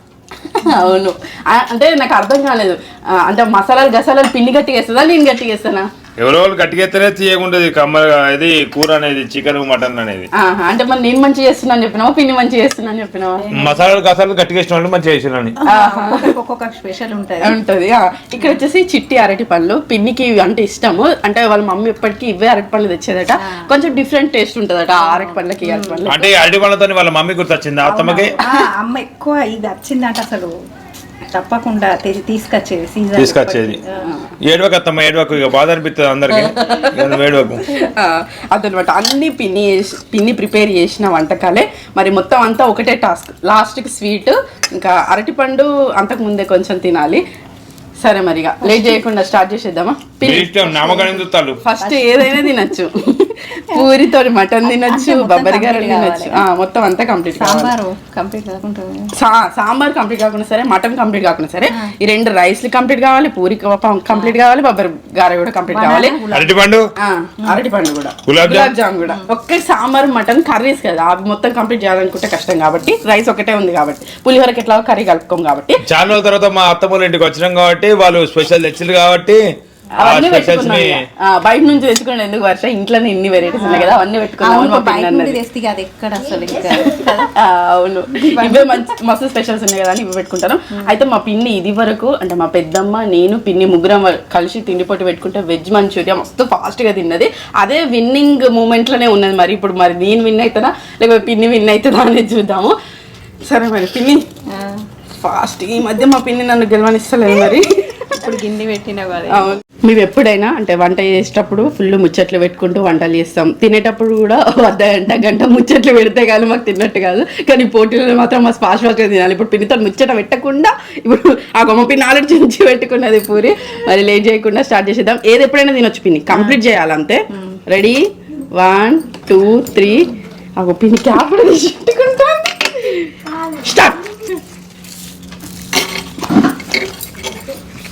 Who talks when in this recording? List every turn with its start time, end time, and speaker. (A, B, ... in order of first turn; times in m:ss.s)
0:00.5-0:05.8 A
0:06.2-0:10.3 B
0:10.4-0:13.5 A
0:13.4-0:13.8 C
0:13.5-0:15.6 B
0:15.6-0:17.6 C
0:15.7-0:16.3 A
0:17.4-0:26.4 A
0:24.9-0:26.0 C
0:26.1-0:28.4 B
0:27.8-0:30.5 C
0:31.3-0:34.0 C
0:33.2-0:33.8 B
0:34.1-0:34.3 A
0:34.4-0:37.7 B
0:36.4-0:37.0 A
0:37.7-0:47.2 A
0:48.0-0:57.7 A
0:48.6-0:48.9 C
0:50.2-0:51.6 B
0:51.8-0:52.8 C
0:53.7-0:54.1 C
0:54.6-0:56.4 C
0:57.4-0:59.1 C
0:59.2-1:06.2 A
1:04.1-1:04.4 C
1:05.7-1:06.6 C
1:06.3-1:06.8 B
1:07.0-1:15.8 A
1:08.3-1:08.7 B
1:15.9-1:19.4 B
1:20.0-1:25.4 A
1:20.0-1:21.0 B
1:23.6-1:27.3 C
1:27.4-1:42.8 A
1:28.2-1:28.8 C
1:43.5-1:44.2 A
1:44.5-1:44.8 C
1:45.2-1:47.7 A
1:48.0-1:49.5 C
1:49.3-2:08.0 A
2:08.6-2:14.0 A